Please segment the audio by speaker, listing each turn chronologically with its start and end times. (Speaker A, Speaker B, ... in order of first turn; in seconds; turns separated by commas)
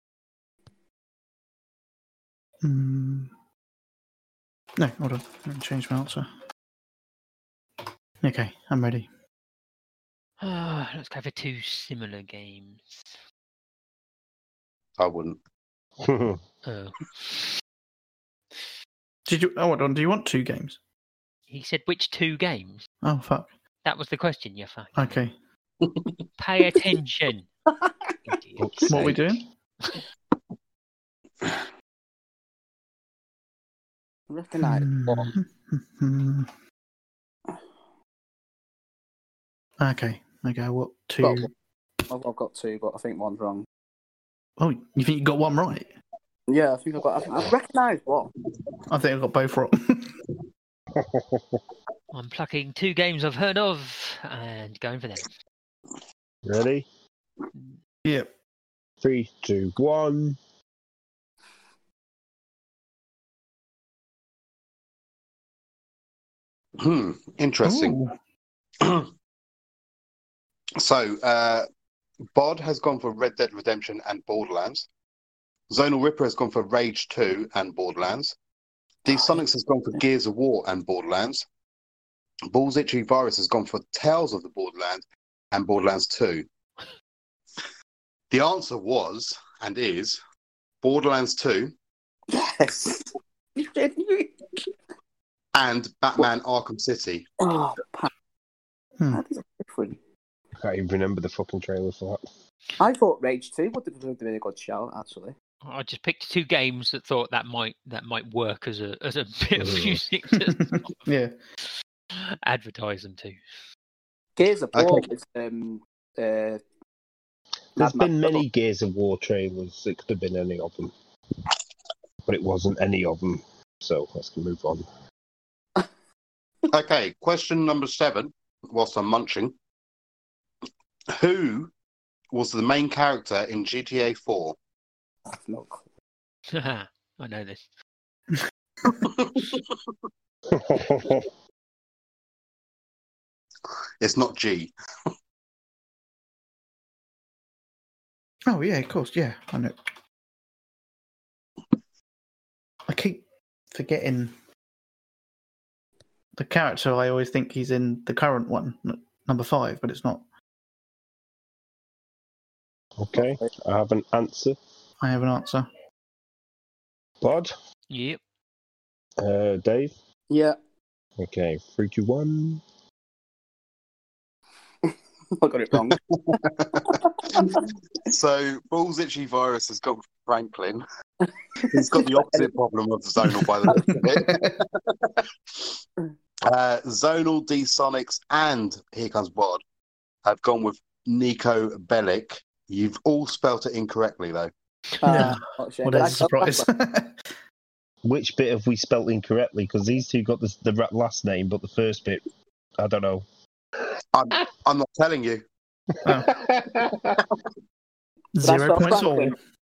Speaker A: 2.6-3.3, Speaker A: 4.8-6.3, Speaker A: 8.2-9.1, Speaker B: 10.4-13.2, Speaker C: 15.0-15.4, Speaker D: 16.0-16.4, Speaker B: 16.6-17.5, Speaker A: 19.2-20.8, Speaker B: 21.5-22.8, Speaker A: 23.0-23.5, Speaker B: 23.8-25.2, Speaker A: 25.0-25.3, Speaker B: 26.4-27.5, Speaker B: 28.3-28.9, Speaker D: 28.6-29.4, Speaker A: 28.9-29.4, Speaker E: 34.3-35.3, Speaker A: 34.6-36.5, Speaker A: 39.8-41.5, Speaker E: 41.2-41.5, Speaker E: 42.1-43.6, Speaker A: 44.6-45.9, Speaker E: 46.5-48.3, Speaker A: 48.9-50.2, Speaker D: 50.9-51.6, Speaker B: 52.1-55.3, Speaker D: 56.4-56.9, Speaker D: 59.0-60.4, Speaker C: 66.8-68.0, Speaker A: 67.6-68.2, Speaker C: 68.8-69.1, Speaker C: 70.8-71.7, Speaker C: 72.3-74.8, Speaker C: 75.7-78.3, Speaker C: 79.0-81.4, Speaker C: 82.5-86.5, Speaker C: 88.3-90.2, Speaker C: 90.8-91.7, Speaker E: 92.3-94.3, Speaker C: 95.5-97.2, Speaker E: 97.4-98.1, Speaker E: 99.1-100.0, Speaker D: 100.6-102.3, Speaker E: 102.8-105.3, Speaker B: 105.6-110.9, Speaker D: 109.6-110.0, Speaker A: 110.4-111.3, Speaker B: 112.1-113.4, Speaker E: 114.4-116.6, Speaker C: 114.7-115.1, Speaker D: 117.8-120.9, Speaker E: 117.8-118.4, Speaker D: 122.2-124.8, Speaker C: 126.7-129.6, Speaker C: 131.1-131.7, Speaker C: 132.3-134.6, Speaker E: 135.3-135.8, Speaker B: 136.5-137.7, Speaker C: 138.9-139.7, Speaker D: 140.5-141.3, Speaker C: 144.0-144.7, Speaker A: 148.4-149.8, Speaker A: 152.9-154.3, Speaker A: 156.3-160.2, Speaker D: 163.0-164.6, Speaker E: 163.1-163.5, Speaker A: 165.0-165.7, Speaker D: 167.2-167.5, Speaker B: 167.9-168.2, Speaker D: 169.2-169.9, Speaker E: 170.3-170.6, Speaker D: 171.2-172.6, Speaker E: 175.4-176.0, Speaker C: 175.9-180.8, Speaker E: 177.2-177.6, Speaker E: 181.6-182.5, Speaker C: 181.6-185.8, Speaker A: 183.8-184.6, Speaker C: 186.4-189.6, Speaker C: 190.2-194.5, Speaker E: 195.0-196.7, Speaker A: 195.1-197.3, Speaker D: 198.0-202.2, Speaker D: 202.8-203.2, Speaker C: 204.1-205.4, Speaker D: 205.9-207.2, Speaker A: 206.0-206.3, Speaker A: 208.3-209.3, Speaker E: 208.4-209.3